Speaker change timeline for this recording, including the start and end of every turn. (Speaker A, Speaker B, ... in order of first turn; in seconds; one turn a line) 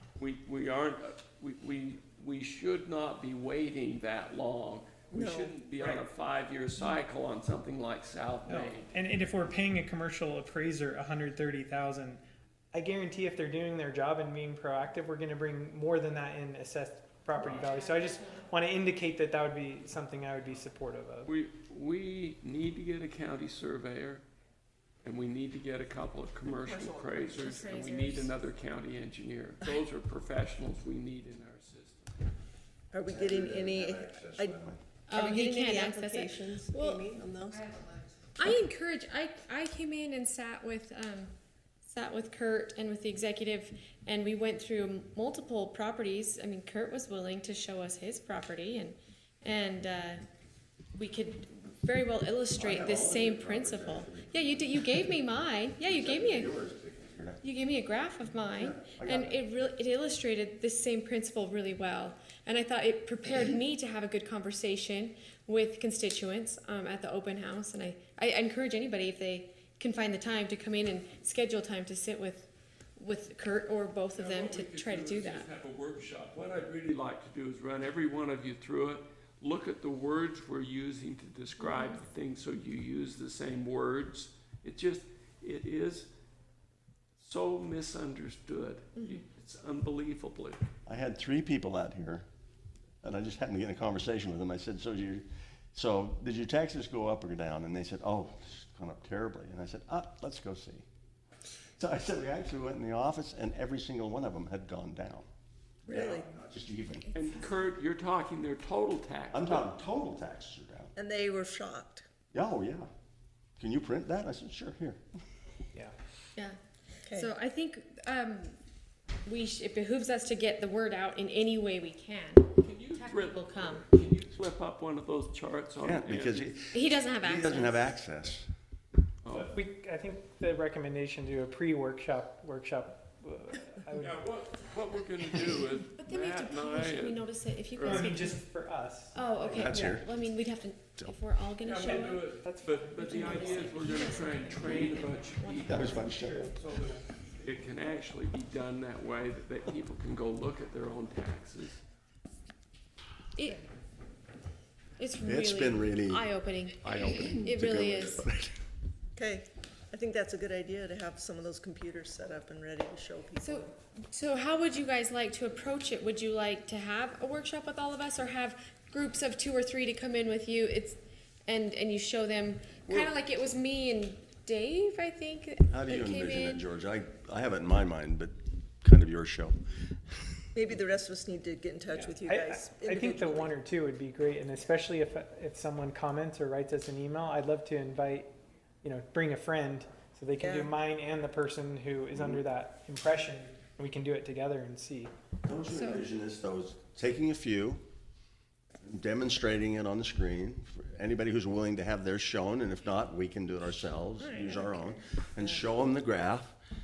Speaker A: 0.2-8.9
Speaker B: 5.1-5.5
Speaker C: 8.5-12.2
Speaker C: 12.7-21.3
Speaker A: 21.2-24.2
Speaker A: 25.0-32.2
Speaker B: 26.5-27.5
Speaker D: 27.4-28.3
Speaker B: 32.9-34.6
Speaker E: 33.1-34.8
Speaker D: 35.1-37.1
Speaker B: 35.1-38.0
Speaker D: 38.4-41.3
Speaker D: 41.9-50.2
Speaker D: 51.0-56.5
Speaker E: 52.6-55.1
Speaker E: 55.8-57.4
Speaker D: 57.4-75.5
Speaker E: 58.5-59.4
Speaker A: 74.2-86.1
Speaker A: 87.2-90.6
Speaker E: 90.9-92.2
Speaker E: 93.0-100.8
Speaker E: 101.8-105.2
Speaker B: 105.9-106.3
Speaker E: 105.9-107.1
Speaker A: 107.1-109.7
Speaker E: 109.3-110.9
Speaker B: 111.0-112.0
Speaker E: 112.3-112.9
Speaker E: 113.6-115.0
Speaker B: 117.1-117.3
Speaker D: 117.1-118.6
Speaker D: 119.3-123.8
Speaker A: 122.6-126.5
Speaker E: 125.8-128.5
Speaker D: 126.7-128.0
Speaker A: 129.2-129.5
Speaker C: 129.3-134.2
Speaker A: 133.9-137.2
Speaker D: 136.0-138.4
Speaker A: 137.8-138.1
Speaker C: 137.8-139.9
Speaker D: 139.1-142.3
Speaker E: 139.5-140.2
Speaker A: 141.6-151.8
Speaker C: 142.4-144.7
Speaker D: 143.0-146.2
Speaker E: 145.7-146.5
Speaker D: 153.4-153.6
Speaker D: 155.0-158.2
Speaker E: 155.2-158.6
Speaker B: 159.2-163.7
Speaker D: 163.4-176.6
Speaker E: 175.7-179.6
Speaker B: 180.5-183.5
Speaker C: 182.3-188.3
Speaker C: 188.8-195.1
Speaker B: 190.4-190.7
Speaker E: 195.4-197.8
Speaker D: 195.7-196.1
Speaker E: 198.8-206.6
Speaker D: 204.2-205.0